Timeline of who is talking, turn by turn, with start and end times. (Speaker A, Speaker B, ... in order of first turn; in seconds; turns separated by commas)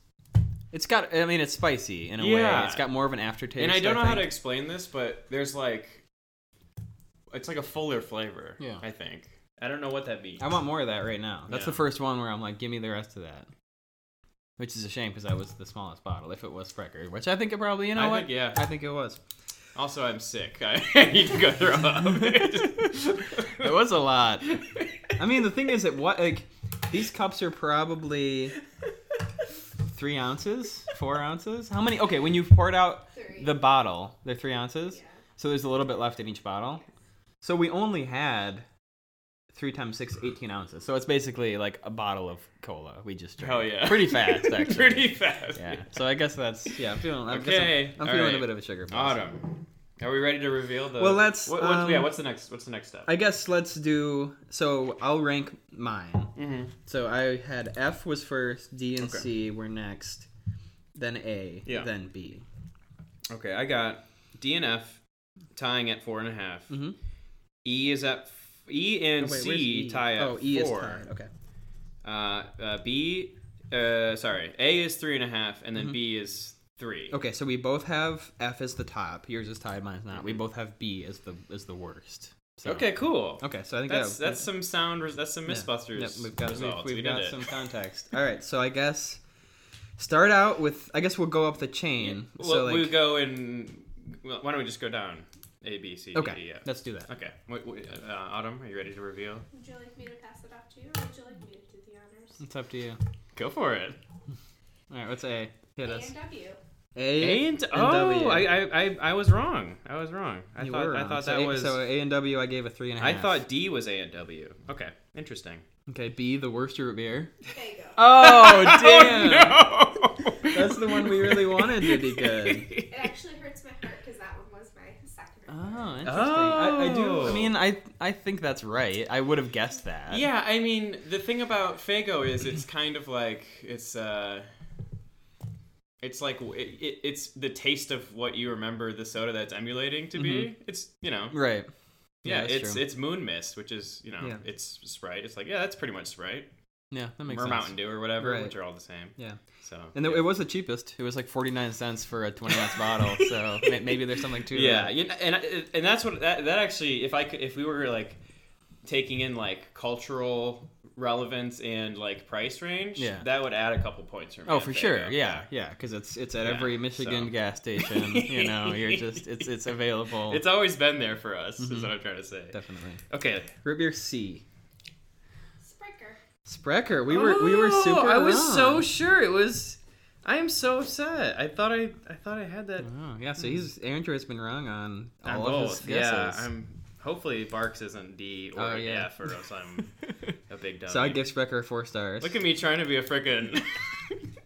Speaker A: 0.7-4.3, Speaker B: 2.2-2.9, Speaker B: 3.5-6.0, Speaker B: 7.3-10.5, Speaker A: 10.4-13.5, Speaker B: 11.5-11.8, Speaker A: 14.6-19.2, Speaker B: 17.9-18.6, Speaker B: 19.7-23.7, Speaker A: 22.2-22.9, Speaker A: 23.5-24.6, Speaker B: 24.5-24.9, Speaker A: 25.1-28.5, Speaker A: 29.9-36.8, Speaker C: 33.1-33.5, Speaker A: 37.4-38.6, Speaker A: 39.5-49.2, Speaker B: 43.4-46.0, Speaker B: 47.3-53.1, Speaker A: 51.0-52.1, Speaker A: 53.1-60.3, Speaker B: 56.3-56.7, Speaker B: 59.0-59.2, Speaker A: 60.9-62.4, Speaker B: 63.3-65.0, Speaker B: 65.5-66.8, Speaker A: 66.7-67.0, Speaker B: 67.6-71.0, Speaker A: 69.2-71.3, Speaker B: 72.0-77.2, Speaker A: 77.1-82.9, Speaker B: 80.1-80.4, Speaker B: 82.6-87.4, Speaker A: 83.4-84.5, Speaker A: 85.5-89.2, Speaker A: 90.0-93.0, Speaker B: 92.0-99.4, Speaker A: 96.1-97.1, Speaker C: 99.5-102.4, Speaker A: 102.4-103.0, Speaker B: 103.3-104.0, Speaker A: 104.9-106.1, Speaker C: 105.8-106.6, Speaker A: 106.9-108.5, Speaker B: 107.2-111.8, Speaker A: 110.6-113.4, Speaker B: 113.0-115.6, Speaker A: 115.9-117.3, Speaker C: 117.5-118.0, Speaker A: 118.0-119.7, Speaker B: 118.0-123.0, Speaker A: 120.4-122.7, Speaker C: 122.9-126.0, Speaker A: 125.5-130.2, Speaker B: 126.0-127.5, Speaker B: 130.1-134.5, Speaker B: 136.0-141.4, Speaker A: 140.1-140.5, Speaker A: 141.3-141.7, Speaker A: 142.2-142.8, Speaker B: 142.2-146.5, Speaker A: 146.9-148.5, Speaker B: 147.3-150.3, Speaker A: 149.9-154.9, Speaker B: 152.7-153.3, Speaker B: 154.5-158.2, Speaker B: 158.8-165.5, Speaker A: 163.0-163.2, Speaker A: 164.4-170.4, Speaker B: 166.4-169.4, Speaker B: 170.2-173.5, Speaker A: 171.6-171.9, Speaker A: 172.5-173.0, Speaker A: 173.6-174.4, Speaker C: 175.6-176.2, Speaker A: 176.4-178.9, Speaker B: 177.1-182.9, Speaker A: 182.8-186.5, Speaker B: 185.2-189.9, Speaker A: 188.6-189.3, Speaker B: 190.5-191.3, Speaker A: 190.9-192.4, Speaker B: 192.2-194.1